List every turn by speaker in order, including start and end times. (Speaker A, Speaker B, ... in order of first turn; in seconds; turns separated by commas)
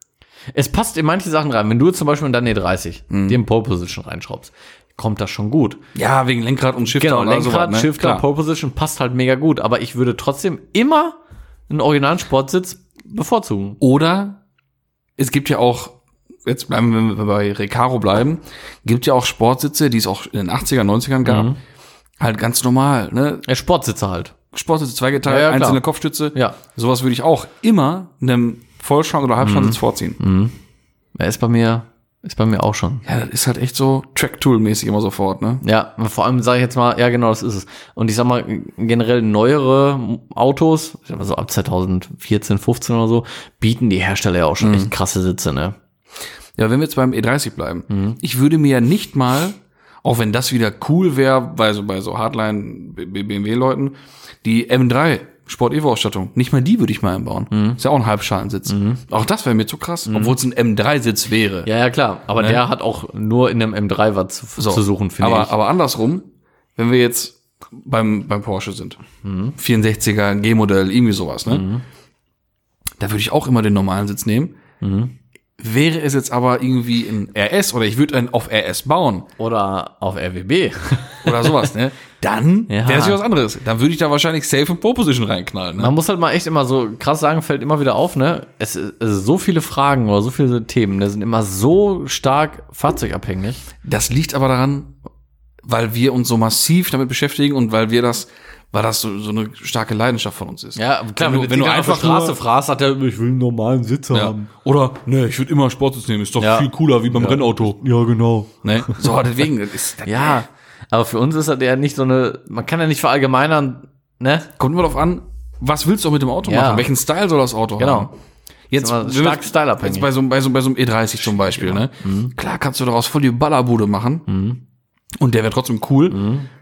Speaker A: 0.5-5.8, Speaker B: 3.1-3.4, Speaker B: 5.9-8.2, Speaker A: 6.9-11.2, Speaker A: 11.7-13.8, Speaker B: 13.8-14.4, Speaker B: 15.2-21.5, Speaker A: 21.2-21.6, Speaker B: 22.2-23.4, Speaker A: 23.4-24.3, Speaker B: 24.5-30.2, Speaker A: 25.2-25.8, Speaker A: 29.4-30.5, Speaker A: 31.1-33.0, Speaker B: 33.0-35.6, Speaker A: 35.6-45.8, Speaker B: 44.6-44.9, Speaker B: 46.6-61.7, Speaker A: 47.9-48.2, Speaker A: 57.5-57.8, Speaker A: 58.7-59.0, Speaker A: 60.1-60.4, Speaker A: 61.6-65.5, Speaker B: 62.4-62.6, Speaker B: 64.6-69.0, Speaker A: 69.2-69.5, Speaker B: 69.6-71.7, Speaker A: 71.5-71.8, Speaker B: 73.0-74.6, Speaker A: 74.8-75.1, Speaker B: 75.6-79.3, Speaker A: 79.4-81.7, Speaker B: 81.2-85.9, Speaker A: 82.7-83.2, Speaker A: 85.8-93.6, Speaker B: 93.8-95.0, Speaker B: 95.6-102.4, Speaker A: 100.8-104.5, Speaker B: 104.1-107.8, Speaker A: 106.4-109.2, Speaker B: 108.6-110.4, Speaker A: 110.0-114.5, Speaker B: 114.6-118.1, Speaker A: 116.4-116.9, Speaker A: 117.8-118.1, Speaker B: 118.7-124.2, Speaker A: 118.8-120.1, Speaker A: 121.5-122.3, Speaker A: 124.3-124.6, Speaker B: 125.2-126.2, Speaker A: 126.1-126.5